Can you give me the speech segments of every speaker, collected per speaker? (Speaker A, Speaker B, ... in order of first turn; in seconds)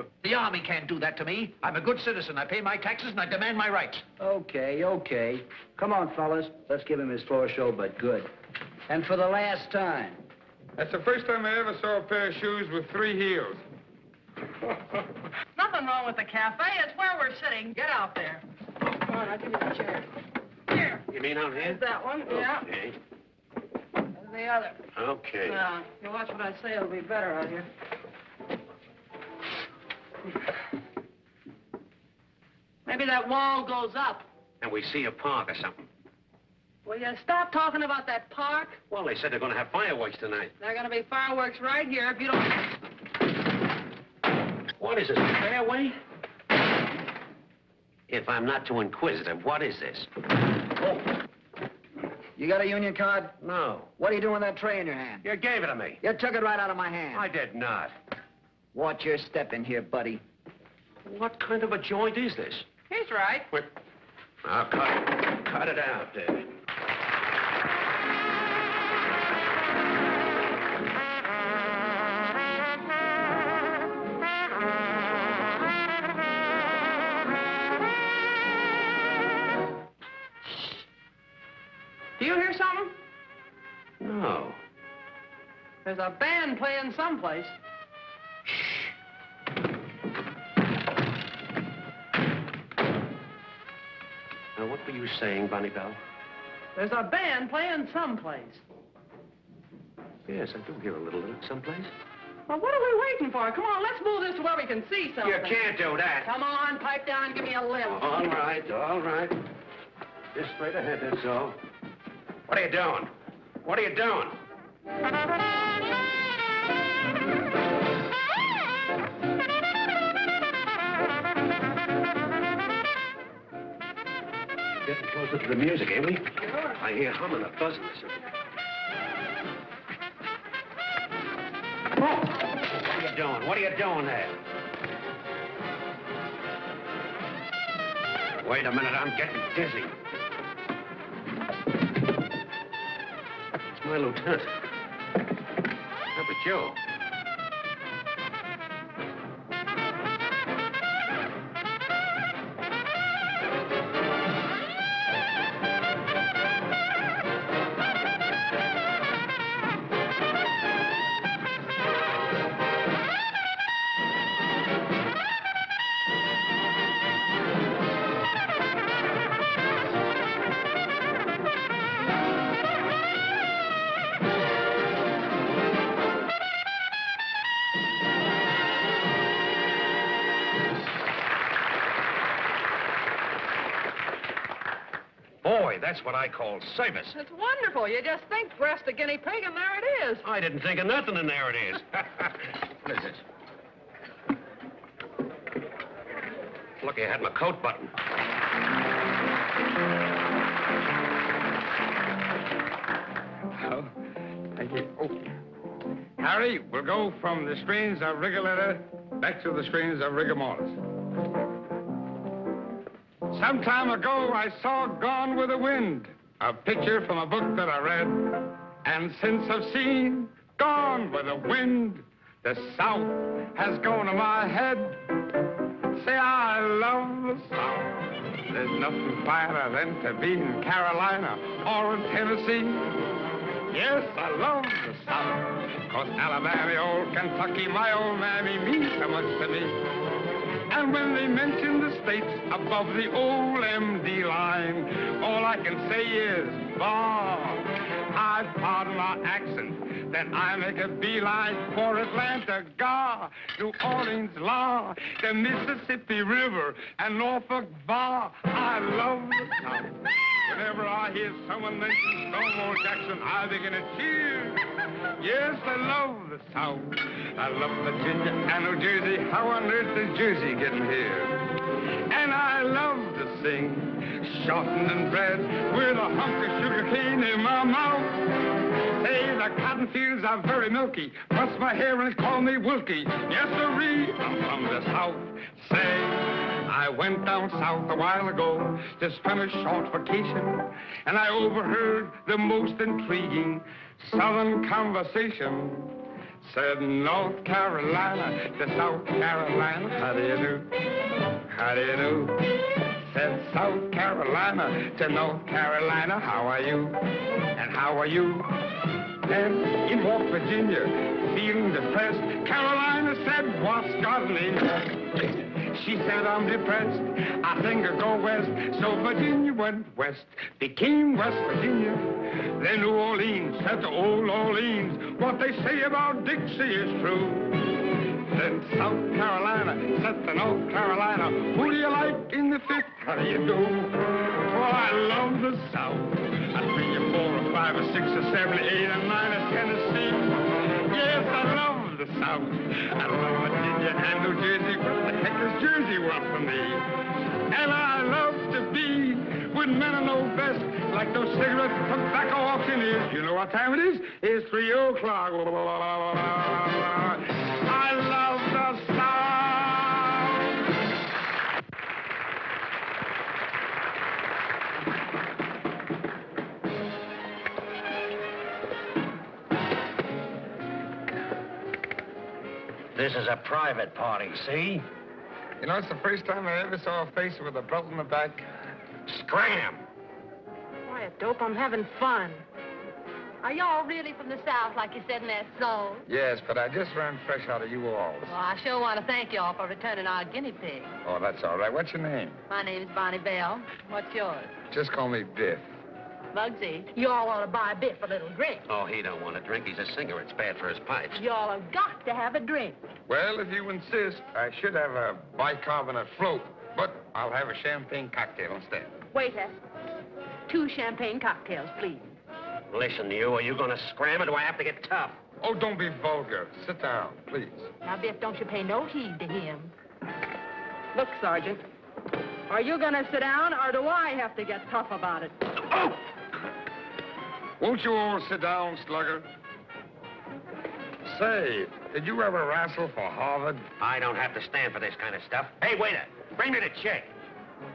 Speaker A: 0.2-4.0
Speaker B: 4.2-8.3, 8.9-10.2, 52.4-53.3, 54.0-55.2, 56.0-57.2, 58.8-60.2
Speaker C: 10.8-13.6, 204.6-205.3, 206.2-210.8, 213.3-225.1, 225.9-233.0, 233.7-239.8, 240.7-264.7, 265.2-271.5, 272.1-300.7, 301.5-307.0, 307.6-308.6, 309.2-346.9, 347.5-360.4, 375.6-378.4, 386.1-388.3, 391.1-392.4, 394.7-395.6, 403.1-408.9, 415.4-417.7, 427.6-429.3, 431.1-433.7
Speaker D: 15.6-20.1, 20.7-21.0, 21.5-22.7, 24.1-24.8, 25.4-27.7, 32.9-34.3, 36.9-38.8, 40.6-42.6, 62.9-63.5, 82.2-83.0, 85.8-87.5, 96.8-98.6, 102.5-105.6, 106.2-108.0, 187.1-190.2, 380.9-382.4, 420.9-421.6, 422.5-425.4
Speaker E: 21.1-23.0, 24.9-25.6, 34.6-35.9, 38.9-40.5, 44.8-46.0, 48.1-50.1, 53.4-53.9, 55.2-56.0, 57.1-57.9, 61.0-62.7, 64.4-66.5, 84.0-84.6, 94.6-96.0, 100.3-101.9, 105.2-106.3, 107.8-109.4, 110.3-111.6, 112.5-113.1, 113.6-114.4, 124.7-128.1, 132.7-134.3, 138.4-139.9, 143.8-144.5, 146.1-146.8, 185.4-187.2, 190.2-193.2, 196.8-197.9, 372.9-374.9, 379.1-379.8, 398.7-401.2, 412.7-415.2, 425.7-426.0, 433.8-437.1
Speaker F: 383.4-386.1, 388.3-390.9, 392.5-394.5, 396.3-398.6, 401.1-402.8, 409.1-409.6, 410.5-412.0, 417.8-419.7